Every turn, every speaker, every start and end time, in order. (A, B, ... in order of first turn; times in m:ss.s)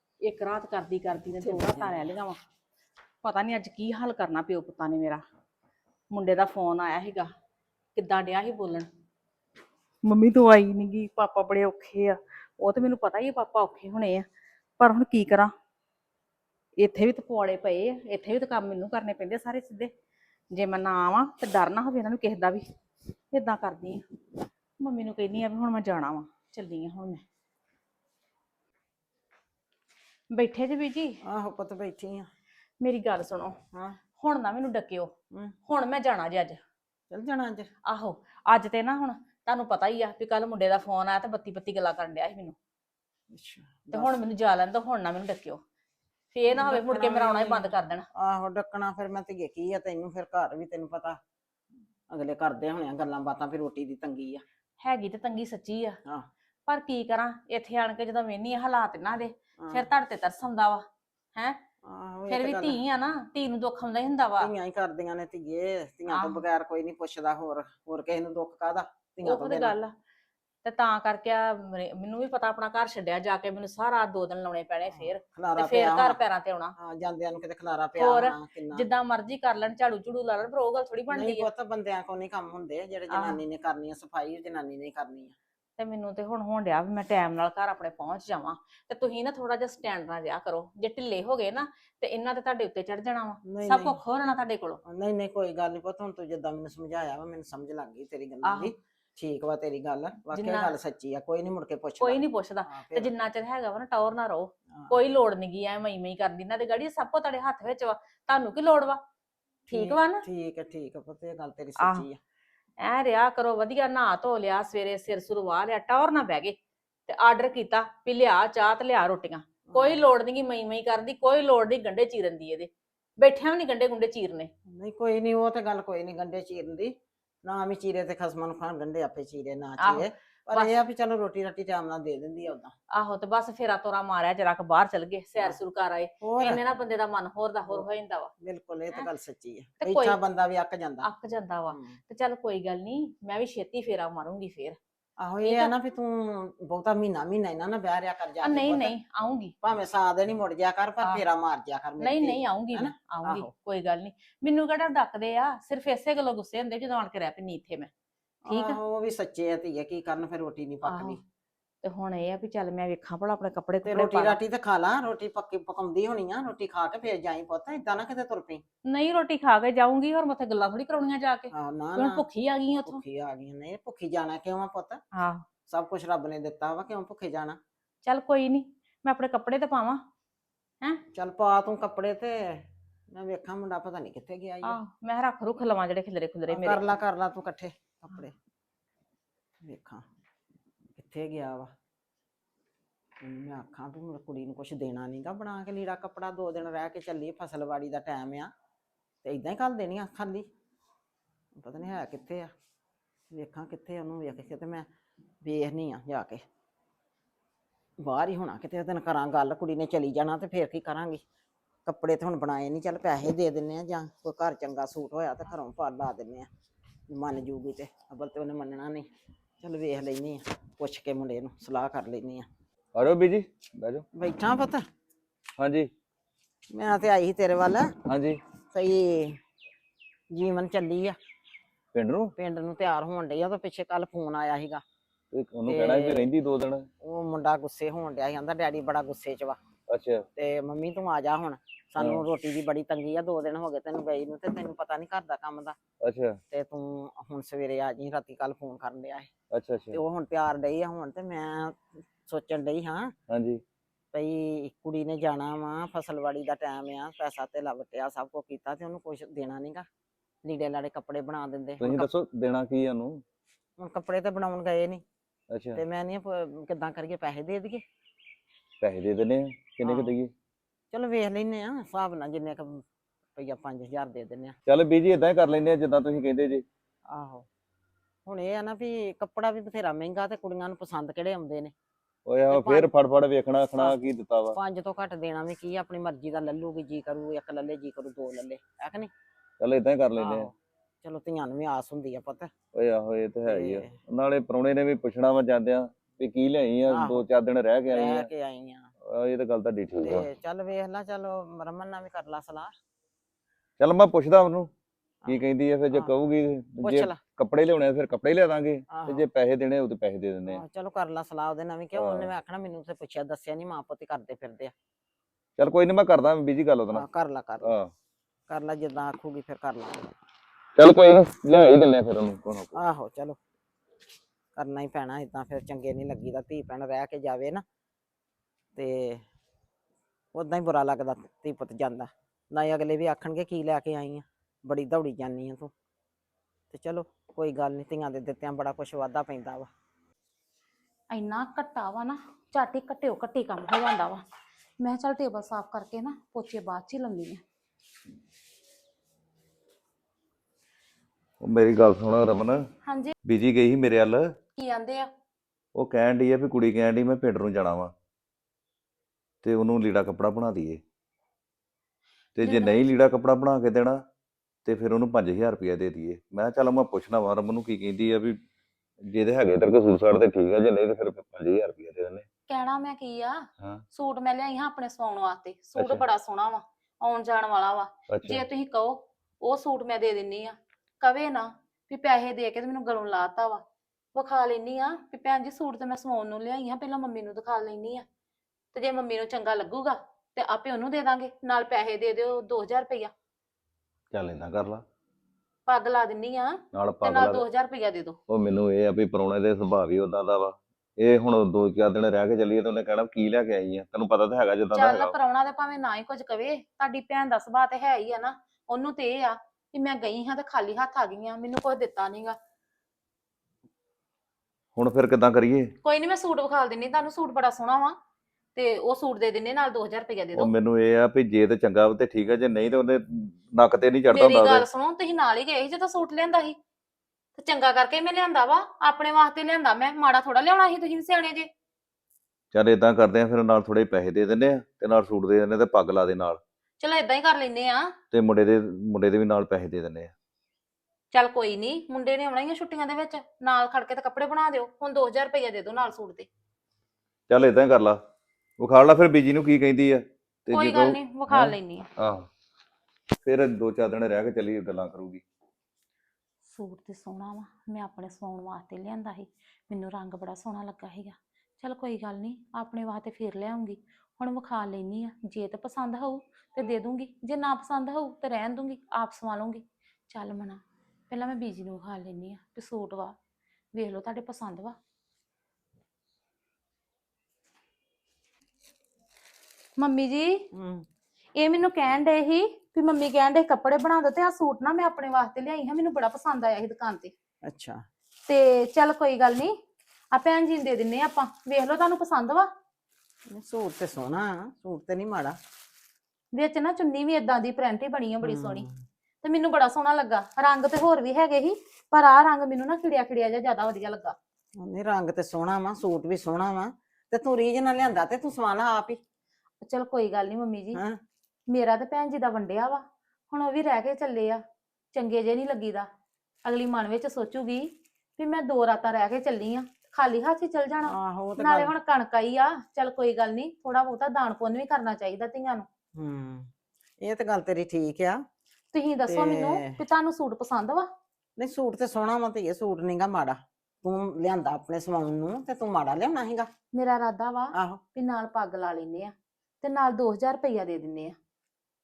0:00.2-0:02.4 A
0:01.4-0:02.1 B
0:03.2-0:05.2 A
0:06.1-0:07.3 A
0:07.9-0:08.9 A
0:10.0-0:14.3 A
0:14.8-0:15.5 A
0:16.8-0:19.9 A
0:20.5-0:22.6 A
0:23.3-0:24.0 A
0:24.8-0:27.2 A
0:30.3-0:31.2 A
0:31.2-0:32.3 B
0:32.8-0:33.5 A
0:33.7-0:34.0 B
0:34.2-0:35.1 A
0:35.6-0:36.6 A
0:37.1-0:37.7 B
0:37.9-0:42.6 A
0:43.3-0:44.2 B
0:43.9-0:45.6 A
0:46.3-0:48.0 A
0:46.5-0:51.2 B
0:52.1-0:54.4 B
0:54.8-0:56.0 A
0:56.7-1:01.6 A
0:59.6-0:59.8 B
1:01.8-1:02.8 B
1:02.3-1:04.5 A
1:04.4-1:09.7 B
1:06.1-1:06.4 A
1:09.2-1:09.9 A
1:10.6-1:16.7 A
1:14.9-1:16.2 B
1:16.8-1:18.8 B
1:18.0-1:21.5 A
1:21.1-1:25.3 B
1:23.1-1:23.4 A
1:25.8-1:34.8 A
1:33.4-1:34.0 B
1:34.8-1:43.1 B
1:38.4-1:38.7 A
1:40.3-1:40.7 A
1:42.0-1:49.0 A
1:44.7-1:45.0 B
1:49.7-1:50.2 A
1:49.7-1:52.2 B
1:51.8-1:52.1 A
1:52.8-1:56.6 A
1:57.1-2:04.5 A
1:59.7-2:00.0 B
2:04.7-2:06.9 B
2:07.4-2:12.7 B
2:09.8-2:10.7 A
2:12.9-2:18.3 A
2:16.2-2:16.6 B
2:18.4-2:21.1 B
2:19.8-2:20.2 A
2:21.0-2:24.8 A
2:21.7-2:22.0 B
2:25.2-2:28.9 B
2:25.4-2:25.7 A
2:28.4-2:29.5 A
2:29.6-2:33.5 B
2:32.0-2:37.9 A
2:38.4-2:41.2 B
2:38.5-2:38.8 A
2:40.8-2:41.2 A
2:41.8-2:44.4 A
2:43.8-2:48.6 B
2:48.8-2:53.0 A
2:51.5-2:52.2 B
2:52.8-2:55.0 B
2:55.1-2:55.4 A
2:55.7-2:57.6 B
2:58.0-3:00.0 A
3:01.1-3:04.8 B
3:04.6-3:06.8 A
3:06.5-3:08.3 B
3:09.6-3:10.0 B
3:11.0-3:11.7 B
3:13.2-3:18.5 B
3:19.2-3:20.5 B
3:21.6-3:22.5 B
3:23.3-3:24.9 B
3:25.4-3:26.4 B
3:28.0-3:31.2 B
3:31.8-3:36.5 B
3:37.1-3:39.1 B
3:39.6-3:42.5 B
3:42.9-3:44.0 C
3:44.1-3:44.8 B
3:45.6-3:45.9 C
3:46.7-3:47.9 B
3:48.1-3:48.4 C
3:48.7-3:49.4 B
3:50.3-3:51.2 B
3:51.9-3:52.3 C
3:52.4-3:54.8 B
3:55.3-3:56.8 C
3:55.7-3:56.3 B
3:57.0-3:59.6 B
3:59.9-4:00.2 C
4:00.4-4:05.8 B
4:06.0-4:06.4 C
4:06.5-4:09.3 B
4:09.5-4:10.0 C
4:09.9-4:13.1 B
4:13.3-4:13.6 C
4:14.1-4:19.8 B
4:20.4-4:22.1 B
4:21.8-4:23.2 C
4:23.8-4:25.0 B
4:25.5-4:25.8 C
4:25.7-4:27.8 B
4:28.8-4:30.3 C
4:29.8-4:30.1 B
4:30.9-4:32.8 B
4:33.4-4:34.5 B
4:34.7-4:36.6 C
4:37.1-4:37.4 B
4:38.2-4:41.7 B
4:42.3-4:44.6 C
4:42.5-4:42.9 B
4:44.5-4:49.1 B
4:49.6-4:50.5 C
4:50.2-4:52.5 B
4:52.7-4:58.3 C
4:53.5-4:53.9 B
4:56.9-4:57.2 B
4:57.9-4:58.9 B
4:59.0-5:00.3 C
5:00.0-5:02.7 B
5:03.8-5:04.7 C
5:05.2-5:06.1 B
5:05.3-5:10.6 C
5:06.8-5:07.2 B
5:08.9-5:09.2 B
5:10.4-5:14.7 B
5:12.0-5:12.3 C
5:15.6-5:17.0 C
5:16.9-5:17.7 B
5:17.6-5:17.9 C
5:18.5-5:20.1 B
5:20.8-5:22.8 C
5:22.7-5:23.4 B
5:24.6-5:27.6 B
5:28.8-5:29.2 B
5:30.3-5:35.7 B
5:36.7-5:39.7 B
5:41.1-5:44.2 D
5:44.8-5:47.4 D
5:51.4-5:52.6 C
5:52.8-5:53.1 D
5:53.2-5:54.2 C
5:54.6-5:55.1 D
5:55.8-5:57.9 C
5:59.4-6:00.8 C
6:02.4-6:04.0 C
6:02.4-6:02.8 D
6:04.6-6:08.4 C
6:09.1-6:12.2 C
6:12.5-6:23.6 D
6:15.8-6:16.0 C
6:18.1-6:18.4 C
6:24.1-6:28.0 D
6:28.7-6:33.1 D
6:34.1-6:34.8 C
6:35.7-6:38.2 D
6:36.7-6:37.4 C
6:38.3-6:45.1 C
6:44.7-6:52.4 D
6:54.8-6:55.7 C
6:55.8-6:58.0 D
6:58.5-7:00.5 D
7:00.4-7:04.6 C
7:04.1-7:06.6 D
7:07.4-7:11.5 D
7:12.5-7:16.4 C
7:16.8-7:17.9 D
7:18.1-7:20.1 C
7:21.1-7:26.3 D
7:27.3-7:28.0 C
7:28.6-7:32.2 C
7:30.5-7:31.9 D
7:33.2-7:35.2 C
7:36.5-7:53.2 D
7:53.7-7:54.7 D
7:59.8-8:00.5 D
8:00.5-8:00.8 B
8:01.4-8:07.1 D
8:07.4-8:07.8 B
8:08.3-8:09.5 D
8:10.1-8:12.5 D
8:13.3-8:15.4 B
8:16.3-8:18.6 D
8:18.2-8:18.7 B
8:19.2-8:24.2 D
8:24.6-8:29.0 B
8:29.6-8:30.8 D
8:31.5-8:34.4 D
8:34.9-8:35.8 D
8:36.4-8:45.6 D
8:40.8-8:41.7 B
8:45.9-8:46.5 B
8:47.0-8:48.2 B
8:48.7-8:50.8 D
8:49.1-8:49.7 B
8:51.4-8:56.5 B
8:56.7-9:01.2 D
8:57.5-8:57.8 B